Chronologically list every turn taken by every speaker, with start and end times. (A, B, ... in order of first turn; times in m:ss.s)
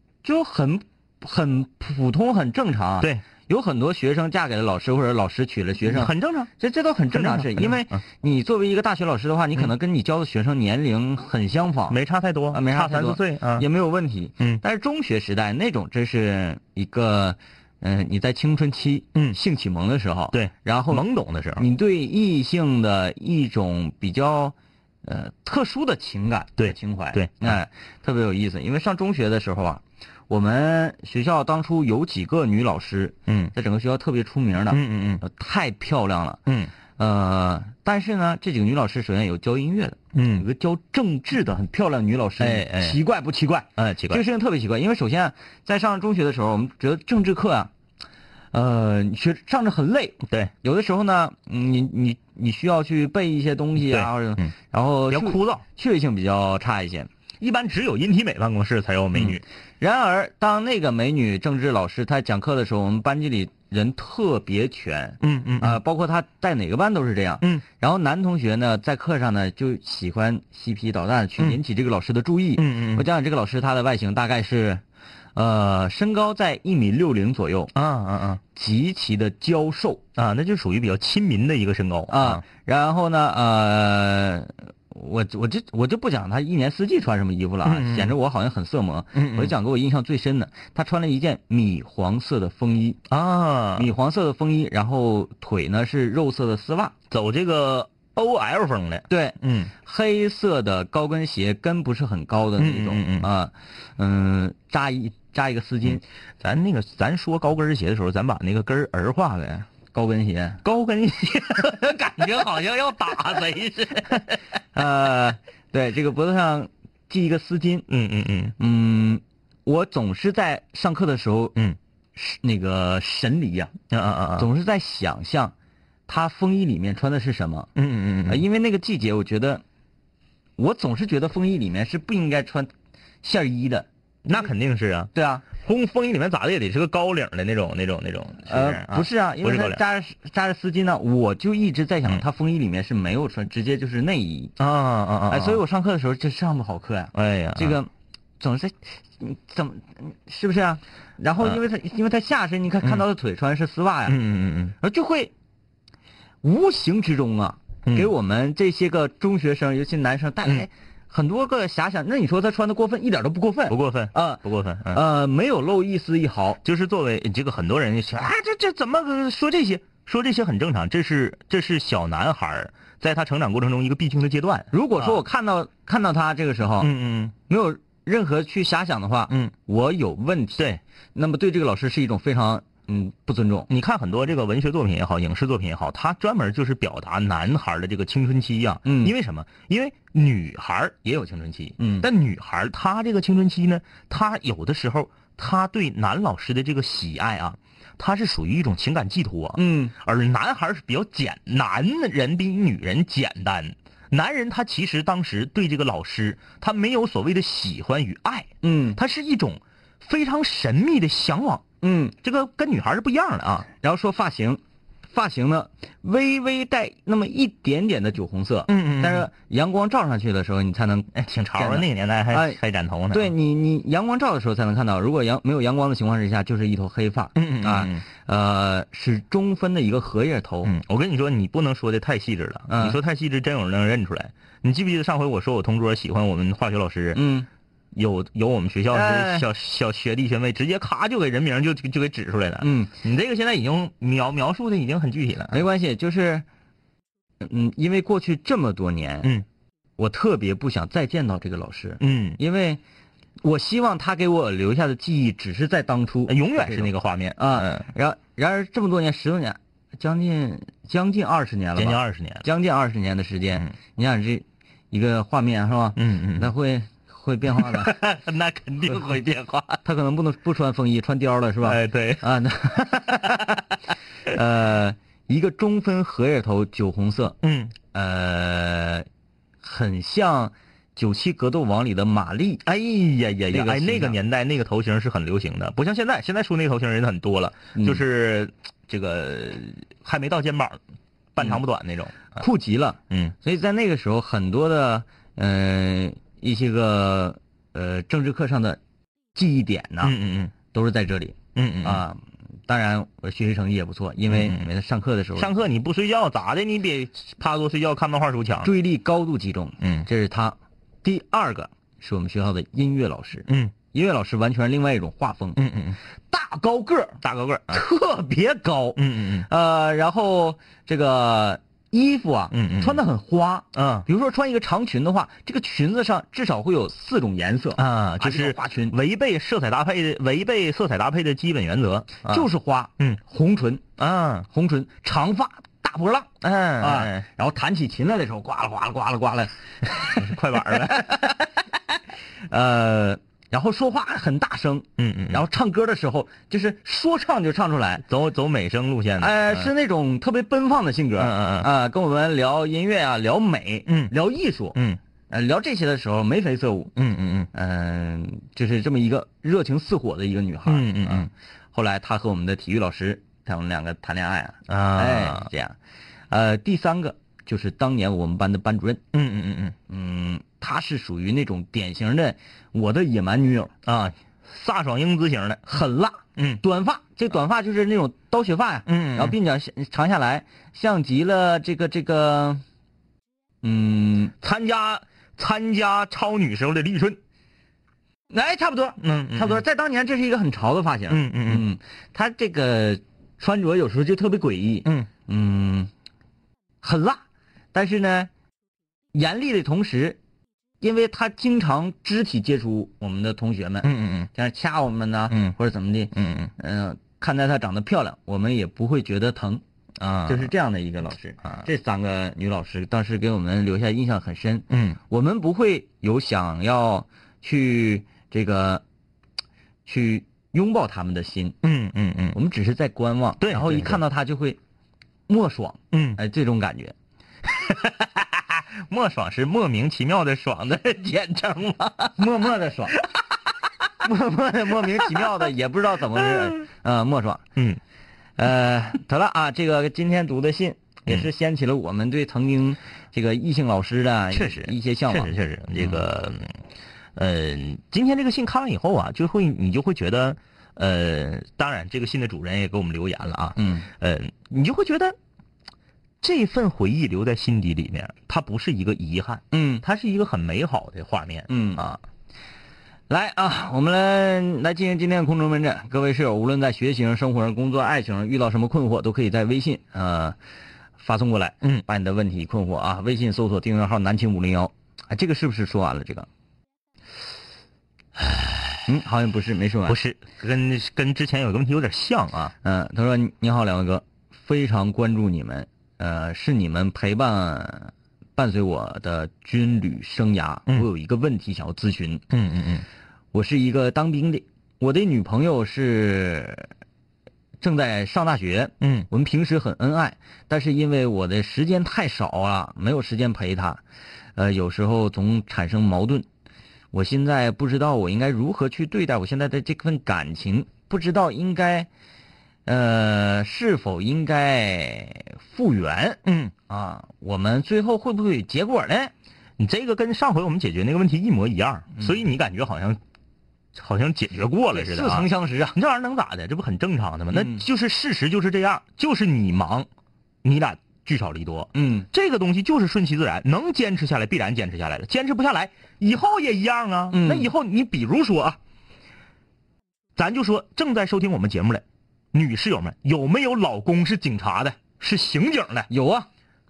0:00.2-0:12.0 A
0:05.8-0:06.5 B
0:07.1-0:08.0 B
0:11.9-0:13.7 B
0:12.5-0:21.0 A
0:20.3-0:21.7 B
0:21.6-0:36.4 A
0:26.6-0:27.6 B
0:33.3-0:33.5 B
0:34.7-0:35.2 B
0:36.4-0:36.7 B
0:37.0-0:47.7 A
0:40.1-0:40.5 B
0:42.4-0:43.0 B
0:43.8-0:44.2 B
0:48.5-0:57.1 A
0:50.3-0:50.5 B
0:53.8-0:54.5 B
0:55.1-0:55.6 B
0:57.4-0:59.4 B
0:59.1-1:14.8 A
1:05.2-1:05.8 B
1:12.6-1:13.1 B
1:15.3-1:17.7 A
1:17.7-1:18.4 B
1:18.5-1:20.0 A
1:20.2-1:22.4 B
1:22.1-1:33.0 A
1:27.6-1:28.1 B
1:29.1-1:29.5 B
1:33.1-1:33.9 B
1:33.8-1:36.9 A
1:37.1-1:39.7 B
1:39.1-1:46.0 A
1:42.6-1:43.3 B
1:45.9-1:49.7 B
1:49.9-1:50.6 A
1:50.6-1:54.3 B
1:54.7-1:57.9 A
1:57.9-1:58.6 B
1:58.6-2:01.6 A
2:02.1-2:03.7 A
2:03.9-2:04.5 B
2:04.4-2:05.5 A
2:06.1-2:07.7 A
2:07.7-2:08.4 B
2:08.3-2:09.6 A
2:10.6-2:12.7 A
2:13.2-2:13.9 A
2:14.2-2:19.8 B
2:15.1-2:15.4 A
2:18.4-2:24.6 A
2:24.6-2:25.6 B
2:25.3-2:34.2 A
2:27.1-2:27.8 B
2:34.1-2:34.8 B
2:34.8-2:35.3 A
2:36.4-2:46.6 A
2:37.8-2:38.1 B
2:43.7-2:45.0 B
2:46.6-2:55.2 B
2:54.7-2:56.9 A
2:56.8-2:57.3 B
2:57.5-3:00.6 A
3:01.1-3:03.7 A
3:03.7-3:31.6 B
3:08.8-3:09.1 A
3:11.8-3:12.1 A
3:19.6-3:19.9 A
3:28.6-3:29.0 A
3:31.8-3:32.1 A
3:32.2-3:33.7 B
3:33.8-3:42.6 A
3:38.7-3:39.3 B
3:41.1-3:43.3 B
3:43.1-3:50.7 A
3:47.4-3:48.0 B
3:50.6-3:57.2 B
3:52.7-3:53.0 A
3:57.1-3:57.5 A
3:57.9-4:05.6 B
3:58.9-3:59.4 A
4:02.6-4:02.9 A
4:05.5-4:06.4 A
4:07.4-4:09.4 A
4:10.0-4:12.8 A
4:12.0-4:12.4 B
4:13.4-4:28.0 A
4:16.3-4:17.9 B
4:21.8-4:22.4 B
4:26.0-4:26.5 B
4:27.6-4:29.8 B
4:29.8-4:33.5 A
4:31.6-4:32.3 B
4:32.9-4:33.5 B
4:34.3-4:37.4 A
4:37.4-4:37.8 B
4:37.9-4:39.0 A
4:39.6-4:42.6 A
4:42.6-4:50.8 B
4:43.5-4:44.2 A
4:47.7-4:48.0 A
4:51.3-4:52.4 B
4:52.3-4:58.8 A
4:53.1-4:53.3 B
4:59.3-5:00.1 A
5:00.0-5:00.5 B
5:00.7-5:05.5 A
5:01.5-5:02.0 B
5:04.3-5:04.7 B
5:05.4-5:08.7 B
5:08.6-5:15.6 A
5:09.8-5:10.1 B
5:13.5-5:13.7 B
5:15.6-5:16.0 B
5:16.3-5:17.2 A
5:17.1-5:17.8 B
5:17.7-5:28.9 A
5:19.0-5:19.5 B
5:22.5-5:23.0 B
5:23.7-5:24.1 B
5:27.8-5:33.2 B
5:32.2-5:33.8 A
5:34.0-5:34.5 B
5:34.5-5:41.5 A
5:36.4-5:37.2 B
5:40.0-5:41.2 B
5:42.5-5:48.0 A
5:45.0-5:45.4 B
5:48.1-5:49.7 B
5:49.2-5:54.8 A
5:51.2-5:51.7 B
5:53.9-5:54.1 B
5:54.7-5:55.0 B
5:55.3-5:56.9 A
5:57.0-5:57.5 B
5:57.5-6:05.8 A
6:00.7-6:01.3 B
6:04.7-6:05.5 B
6:06.3-6:09.0 A
6:09.1-6:09.8 B
6:09.9-6:13.7 A
6:13.8-6:15.7 B
6:15.7-6:22.6 A
6:16.4-6:16.6 B
6:18.8-6:19.4 B
6:23.6-6:24.3 A
6:24.4-6:27.2 B
6:28.3-6:35.9 A
6:29.0-6:29.6 B
6:31.1-6:31.6 B
6:34.8-6:35.1 B
6:36.8-6:37.2 A
6:37.7-6:38.3 A
6:39.1-6:40.2 A
6:40.8-6:49.6 A
6:43.8-6:44.3 B
6:45.3-6:45.6 B
6:46.1-6:46.5 B
6:50.0-6:50.5 B
6:50.3-6:58.8 A
6:54.7-6:55.0 B
6:59.8-7:01.6 A
7:01.6-7:02.4 B
7:02.3-7:04.6 A
7:03.4-7:04.0 B
7:05.3-7:06.9 A
7:05.9-7:06.2 B
7:07.5-7:12.2 B
7:12.2-7:13.0 A
7:14.0-7:17.4 A
7:18.4-7:26.0 A
7:24.3-7:26.5 B
7:27.2-7:35.2 B
7:33.6-7:33.9 A
7:36.2-7:42.0 B
7:39.5-7:39.8 A
7:41.5-7:41.8 A
7:43.1-7:50.4 A
7:51.0-7:56.3 A
7:58.8-8:00.0 A
7:59.9-8:02.5 B
8:02.6-8:12.2 A
8:12.3-8:12.8 B
8:13.3-8:16.7 A
8:17.6-8:23.8 A
8:18.8-8:19.1 B
8:24.4-8:26.3 A
8:26.9-8:31.9 A
8:32.6-8:39.1 A
8:36.2-8:36.5 B
8:39.6-8:43.0 B
8:43.7-8:49.9 B
8:44.7-8:45.8 A
8:47.3-8:47.6 A
8:50.4-8:58.6 B
8:51.7-8:52.1 A
8:57.1-8:57.5 A
9:00.2-9:05.9 B
9:05.9-9:06.3 A